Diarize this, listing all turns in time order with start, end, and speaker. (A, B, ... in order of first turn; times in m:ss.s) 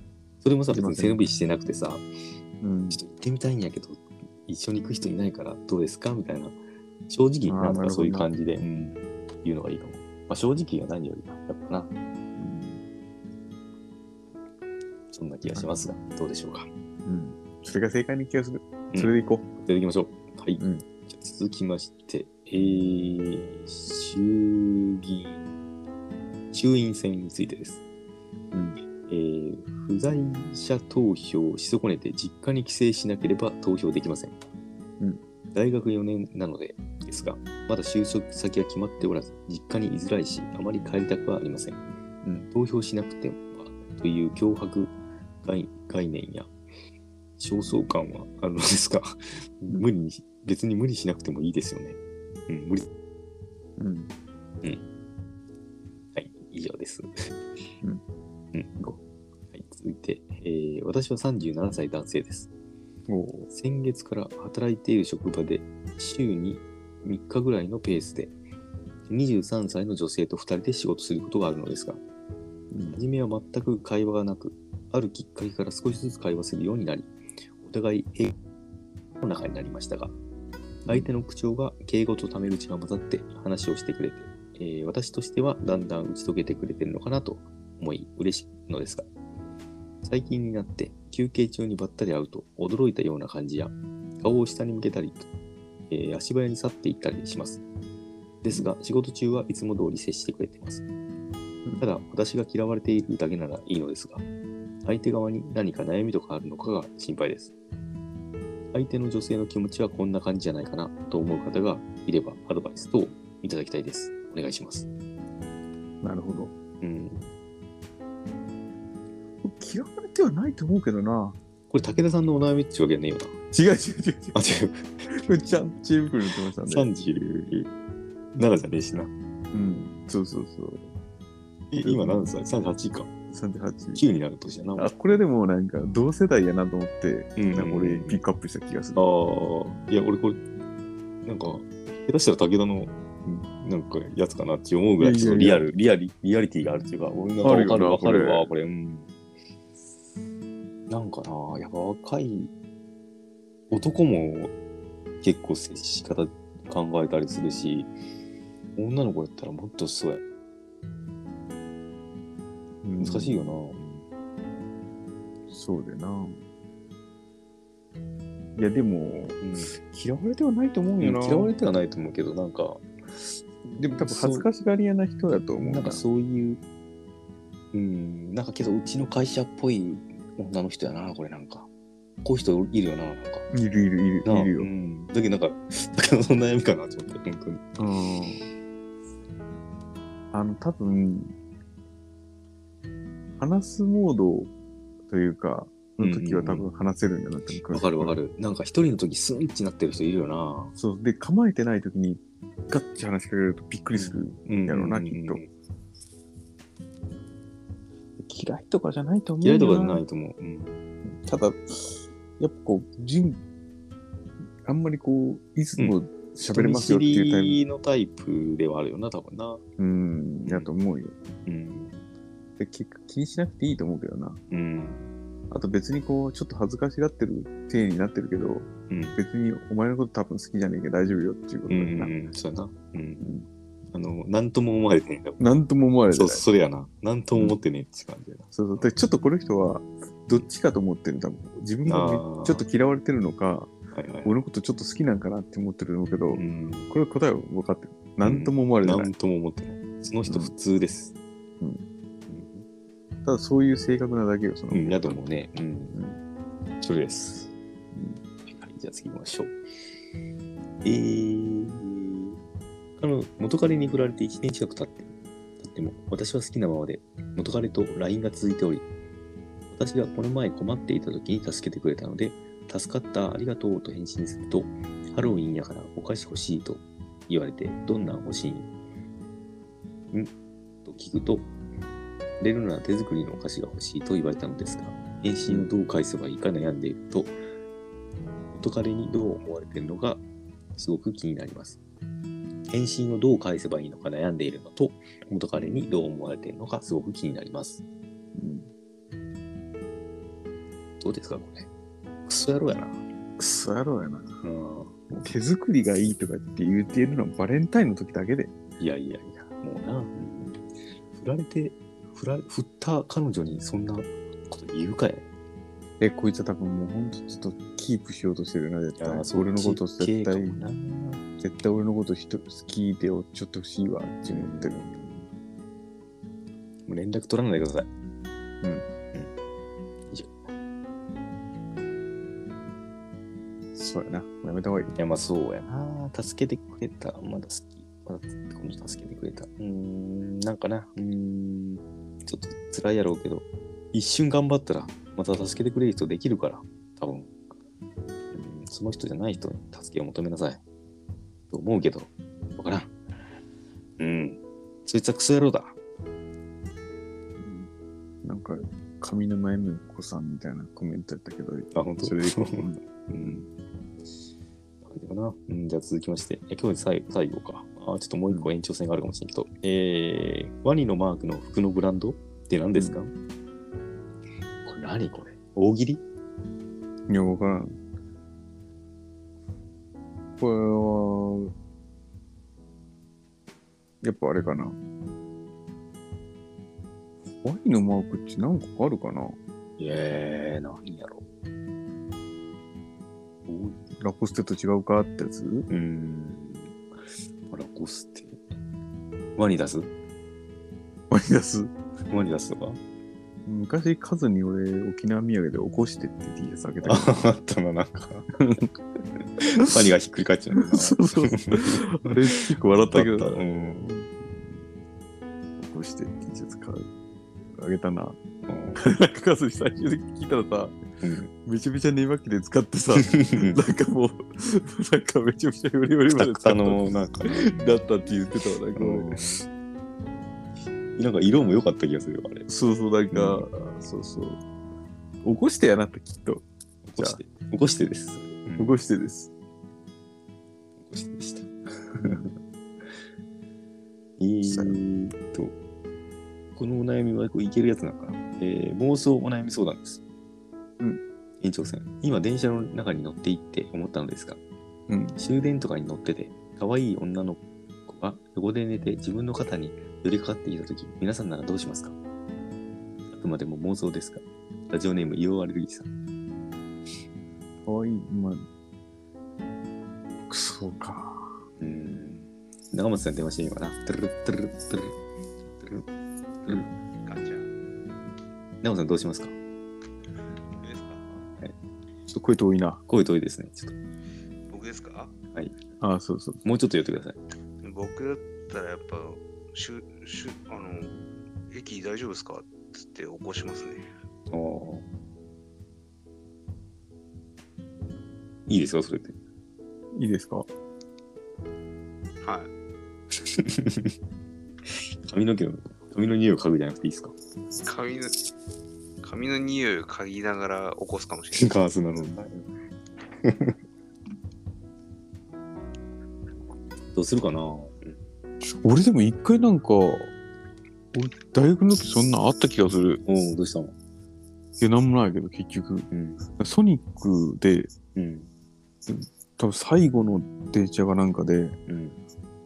0:00.4-0:02.1 A
0:00.7-0:01.2 B
0:02.6-0:03.0 B
0:02.9-0:11.9 A
0:07.5-0:08.3 B
0:12.4-0:12.8 B
0:15.1-0:16.7 A
0:15.5-0:15.8 B
0:17.0-0:19.5 B
0:18.9-0:25.5 A
0:20.6-0:20.8 B
0:26.5-0:27.8 A
0:28.5-0:28.8 B
0:29.1-0:34.4 A
0:35.5-0:41.8 A
0:42.2-0:42.5 B
0:42.5-0:46.5 A
0:47.4-0:52.9 A
0:53.8-0:54.1 B
0:56.1-0:57.3 A
0:59.5-1:02.5 A
1:03.1-1:03.5 B
1:03.5-1:08.3 A
1:09.1-1:12.0 A
1:12.7-1:13.0 B
1:12.9-1:18.3 A
1:19.2-1:20.1 A
1:20.8-1:29.1 A
1:20.9-1:21.1 B
1:30.0-1:35.3 A
1:35.9-1:37.6 A
1:38.4-1:40.8 A
1:41.8-1:44.2 A
1:44.8-1:47.5 A
1:48.7-1:54.9 A
1:56.0-1:56.5 B
1:56.8-1:57.3 A
1:59.4-2:01.4 B
2:01.7-2:03.3 A
2:03.5-2:04.4 B
2:04.3-2:05.0 A
2:05.0-2:06.9 B
2:06.6-2:07.7 A
2:08.3-2:09.1 A
2:09.5-2:10.9 B
2:11.7-2:13.1 A
2:11.8-2:12.3 B
2:13.3-2:14.0 B
2:13.9-2:14.9 A
2:14.8-2:19.1 B
2:17.4-2:18.2 A
2:18.9-2:20.4 A
2:21.2-2:29.1 A
2:25.0-2:25.6 B
2:27.4-2:28.5 B
2:30.9-2:32.5 A
2:33.7-2:34.5 A
2:35.2-2:37.9 A
2:38.8-2:40.2 A
2:42.8-2:43.6 B
2:43.0-2:44.0 A
2:45.5-2:46.4 B
2:48.6-2:51.5 B
2:49.4-2:49.7 A
2:51.0-2:54.5 A
2:53.8-2:56.0 B
2:55.6-2:56.6 A
2:57.7-3:01.7 A
3:02.2-3:03.5 A
3:03.5-3:04.7 B
3:04.2-3:07.7 A
3:07.8-3:08.4 B
3:10.3-3:11.3 B
3:13.4-3:14.5 B
3:15.1-3:18.2 B
3:16.0-3:16.7 A
3:17.7-3:20.7 A
3:20.8-3:25.4 B
3:23.9-3:25.5 A
3:28.2-3:30.0 B
3:29.4-3:30.8 A
3:31.1-3:33.4 B
3:34.6-3:37.6 B
3:36.5-3:39.6 A
3:39.8-3:41.1 B
3:40.4-3:40.7 A
3:41.4-3:42.0 A
3:42.6-3:44.4 B
3:44.5-3:45.1 A
3:45.5-3:52.1 B
3:48.9-3:49.2 A
3:51.7-3:53.3 A
3:53.2-3:53.5 B
3:53.9-3:55.4 A
3:55.4-3:56.4 B
3:56.1-3:58.9 A
3:58.5-4:03.7 B
4:01.8-4:02.6 A
4:03.9-4:04.3 A
4:04.2-4:09.1 B
4:06.3-4:06.9 A
4:08.2-4:11.1 A
4:10.3-4:10.5 B
4:12.3-4:12.6 A
4:13.2-4:15.2 B
4:14.7-4:16.0 A
4:16.8-4:17.5 A
4:17.9-4:18.2 B
4:18.4-4:19.6 A
4:20.8-4:22.4 A
4:23.0-4:28.8 A
4:29.7-4:38.7 A
4:40.8-4:41.5 A
4:42.4-4:47.3 A
4:48.5-4:50.2 A
4:50.8-4:51.8 A
4:52.7-4:57.8 A
4:58.4-4:58.7 B
5:01.0-5:01.7 A
5:02.2-5:03.0 A
5:03.4-5:04.4 B
5:04.4-5:05.0 A
5:05.1-5:08.5 B
5:08.8-5:10.6 A
5:11.1-5:15.3 A
5:16.0-5:20.7 B
5:19.0-5:21.2 A
5:21.4-5:25.1 B
5:24.3-5:25.2 A
5:26.8-5:27.9 A
5:30.1-5:30.5 A
5:33.7-5:34.9 B
5:34.9-5:47.3 A
5:48.3-5:50.6 A
5:51.5-5:52.9 A
5:54.0-5:55.8 A
5:57.4-5:57.7 B
5:58.2-6:03.4 B
6:01.7-6:03.5 A
6:04.8-6:13.1 A
6:14.6-6:16.0 A
6:17.1-6:17.8 B
6:20.4-6:21.5 B
6:24.0-6:24.8 B
6:27.4-6:29.4 B
6:29.8-6:31.2 A
6:33.5-6:33.8 A
6:34.0-6:35.7 B
6:35.7-6:36.8 A
6:37.5-6:38.4 A
6:39.4-6:39.9 A
6:41.1-6:41.7 B
6:42.1-6:42.8 A
6:43.4-6:47.2 B
6:46.8-6:48.3 A
6:48.4-6:48.7 B
6:49.4-6:53.9 A
6:50.7-6:54.6 B
6:55.6-6:56.9 B
6:57.5-6:58.2 B
6:58.4-6:58.8 A
6:58.7-7:00.8 B
7:01.0-7:01.3 A
7:01.4-7:09.2 B
7:03.1-7:03.6 A
7:06.1-7:07.8 A
7:08.8-7:09.4 A
7:10.9-7:12.5 A
7:12.5-7:14.4 B
7:13.1-7:13.4 A
7:15.2-7:16.4 B
7:16.8-7:18.8 A
7:18.6-7:19.3 B
7:20.8-7:22.3 A
7:22.0-7:22.3 B
7:24.2-7:25.5 A
7:24.4-7:24.8 B
7:26.6-7:30.0 A
7:31.4-7:34.4 A
7:34.9-7:35.2 B
7:35.2-7:42.0 A
7:43.1-7:45.9 A
7:47.6-7:48.4 B
7:50.3-7:51.4 B
7:51.6-7:54.9 A
7:57.0-7:57.5 C
7:58.6-7:59.3 A
8:00.6-8:01.2 C
8:02.1-8:02.8 B
8:02.9-8:03.7 A
8:04.5-8:05.2 C
8:05.8-8:06.4 B
8:06.4-8:07.2 A
8:07.6-8:11.0 C
8:11.5-8:13.9 C
8:14.3-8:14.8 A
8:18.5-8:19.2 A
8:19.9-8:20.5 B
8:22.2-8:22.5 C
8:23.1-8:23.9 A
8:24.7-8:27.1 A
8:27.6-8:28.1 C
8:29.0-8:31.6 C
8:31.3-8:32.4 A
8:33.2-8:33.5 A
8:36.9-8:38.0 A
8:38.4-8:40.1 B
8:40.9-8:43.0 B
8:43.0-8:43.7 A
8:44.6-8:47.7 B
8:45.9-8:46.2 A
8:47.9-8:48.3 A
8:48.9-8:51.6 B
8:51.7-8:52.0 A